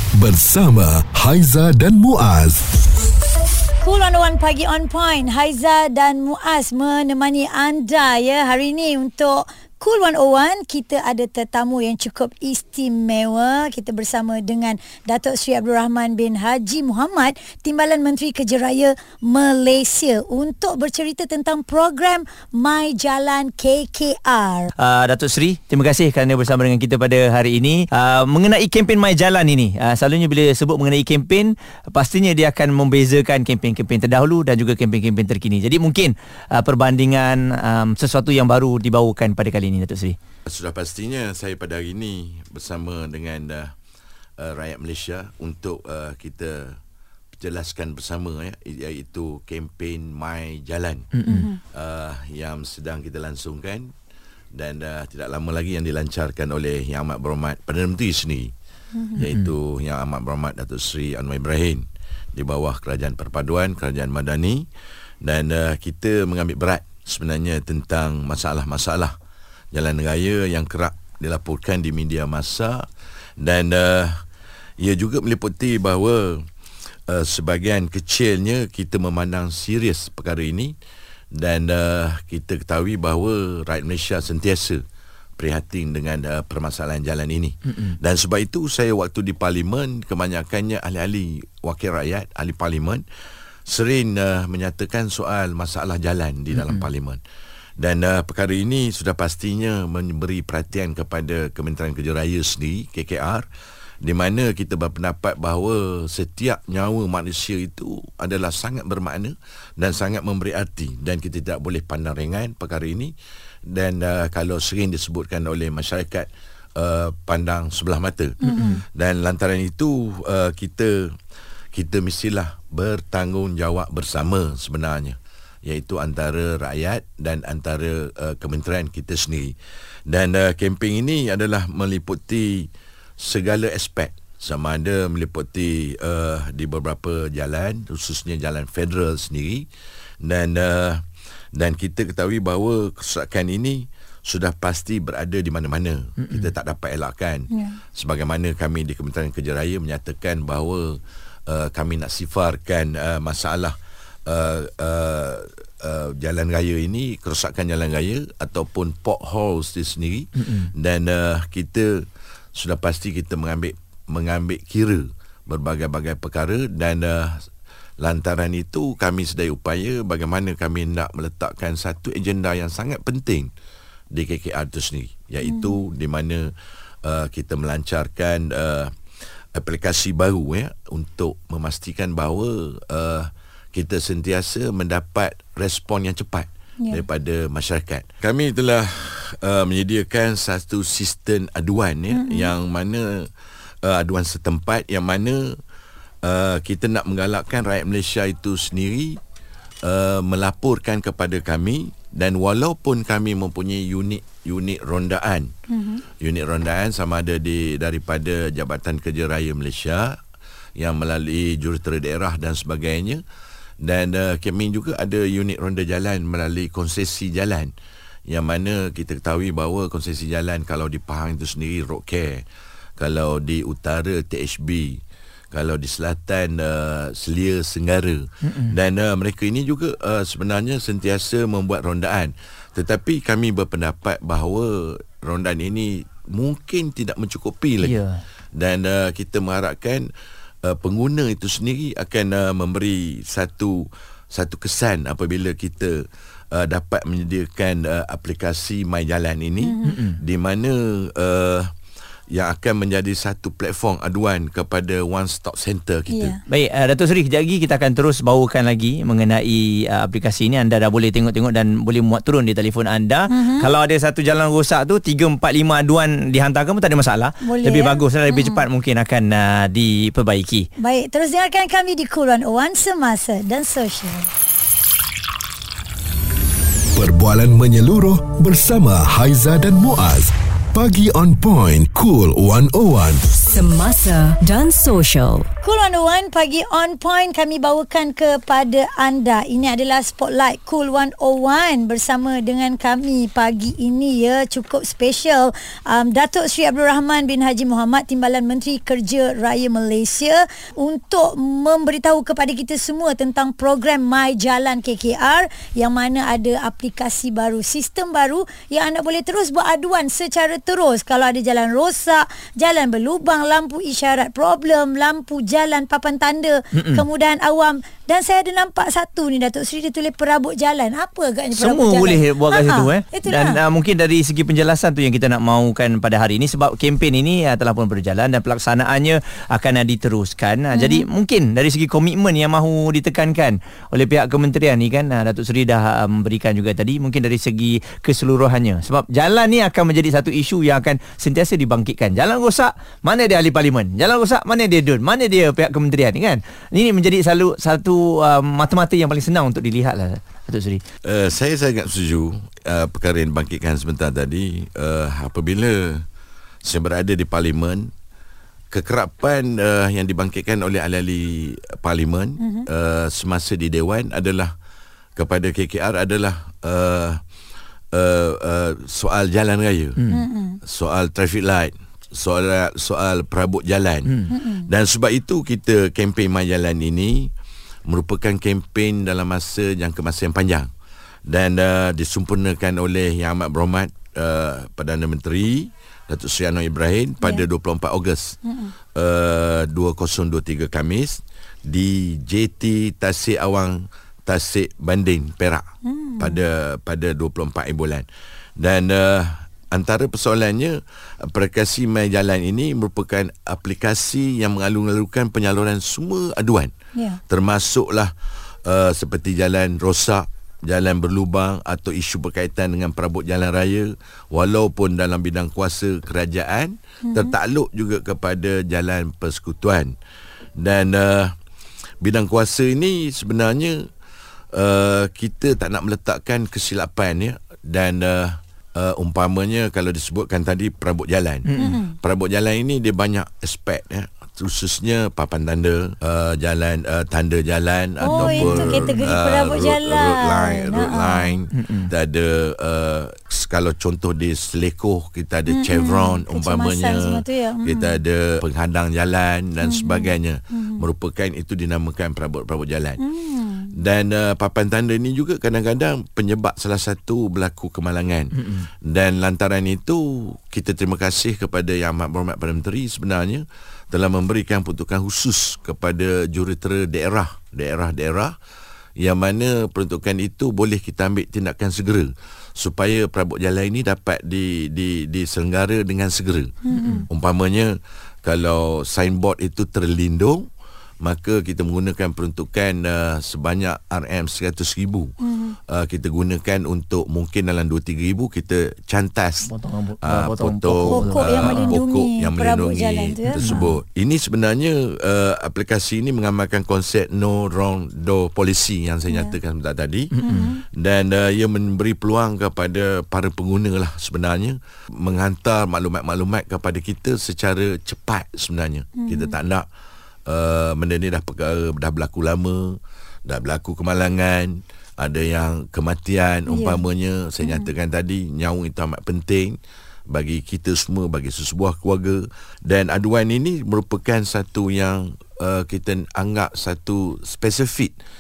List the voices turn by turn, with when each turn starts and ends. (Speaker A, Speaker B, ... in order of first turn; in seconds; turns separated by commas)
Speaker A: 0.1-2.6, Speaker B: 3.8-24.7, Speaker C: 24.8-40.2, Speaker D: 40.5-43.7, Speaker D: 44.4-46.8, Speaker D: 47.4-51.1, Speaker C: 51.1-51.5, Speaker B: 51.3-51.6, Speaker D: 51.6-53.9, Speaker D: 54.5-58.5, Speaker B: 58.9-59.2, Speaker D: 59.2-64.7, Speaker C: 59.2-59.5, Speaker D: 65.2-69.2, Speaker D: 69.7-72.9, Speaker D: 73.4-74.2, Speaker D: 74.8-76.5, Speaker D: 77.1-80.8, Speaker D: 81.3-84.8, Speaker D: 85.4-93.0, Speaker D: 93.7-97.2, Speaker C: 96.5-96.9, Speaker D: 97.8-103.5, Speaker D: 104.0-113.1, Speaker D: 113.7-121.2, Speaker C: 118.4-118.8, Speaker B: 118.4-118.8, Speaker D: 121.7-139.7, Speaker D: 140.2-167.5, Speaker C: 146.2-146.5, Speaker B: 147.5-147.8, Speaker C: 160.4-160.7, Speaker D: 168.0-173.5, Speaker D: 174.1-176.5, Speaker B: 175.4-175.8, Speaker D: 177.0-178.9, Speaker D: 179.5-195.6, Speaker B: 192.1-192.5, Speaker D: 196.2-199.2, Speaker D: 199.8-205.5, Speaker B: 205.7-206.0, Speaker D: 206.2-210.2, Speaker D: 210.8-213.2, Speaker D: 213.8-217.7, Speaker D: 218.3-222.4, Speaker D: 223.0-225.0, Speaker D: 225.5-238.0, Speaker C: 228.4-228.8, Speaker C: 237.8-238.2, Speaker D: 238.5-240.1, Speaker D: 240.6-251.7, Speaker B: 249.6-250.0, Speaker C: 249.9-250.2, Speaker D: 252.3-256.4, Speaker B: 256.1-256.4, Speaker C: 256.5-270.7, Speaker B: 263.3-263.7, Speaker B: 267.4-268.6, Speaker B: 270.8-274.3, Speaker A: 276.9-283.3, Speaker E: 283.5-285.5, Speaker B: 285.6-323.6, Speaker C: 316.8-317.1, Speaker C: 321.6-350.8, Speaker B: 330.7-331.1, Speaker D: 351.1-356.0, Speaker D: 356.6-357.9, Speaker D: 358.7-364.5, Speaker B: 362.4-362.7, Speaker D: 365.2-367.2, Speaker D: 367.9-370.0, Speaker C: 370.0-370.2, Speaker B: 370.1-370.6, Speaker D: 370.6-377.3, Speaker B: 374.3-374.7, Speaker D: 377.9-380.7, Speaker D: 381.3-388.4, Speaker B: 388.4-388.7, Speaker D: 388.9-395.6, Speaker B: 395.8-396.4, Speaker D: 396.2-398.1, Speaker D: 398.6-406.7, Speaker B: 406.9-407.2, Speaker D: 407.3-408.1, Speaker D: 408.6-419.9, Speaker B: 417.1-417.4, Speaker D: 420.6-421.4, Speaker D: 422.0-423.9, Speaker D: 424.5-453.0, Speaker C: 431.5-431.8, Speaker B: 431.6-432.0, Speaker B: 438.0-441.4, Speaker C: 438.1-439.1, Speaker C: 441.5-441.9, Speaker B: 445.5-448.0, Speaker B: 449.6-450.8, Speaker B: 453.0-453.8, Speaker D: 453.8-468.4, Speaker D: 469.0-476.6, Speaker B: 476.6-477.1, Speaker C: 476.7-477.1, Speaker D: 477.1-480.5, Speaker D: 481.0-485.1, Speaker B: 485.2-485.6, Speaker D: 485.7-489.5, Speaker C: 489.4-491.8, Speaker D: 490.0-500.1, Speaker B: 490.9-493.7, Speaker C: 493.4-493.6, Speaker B: 499.1-499.3, Speaker C: 500.1-500.5, Speaker B: 500.2-500.6, Speaker D: 500.7-509.7, Speaker B: 509.0-509.4, Speaker D: 510.3-519.6, Speaker B: 516.5-516.8, Speaker B: 517.4-517.7, Speaker D: 520.1-528.0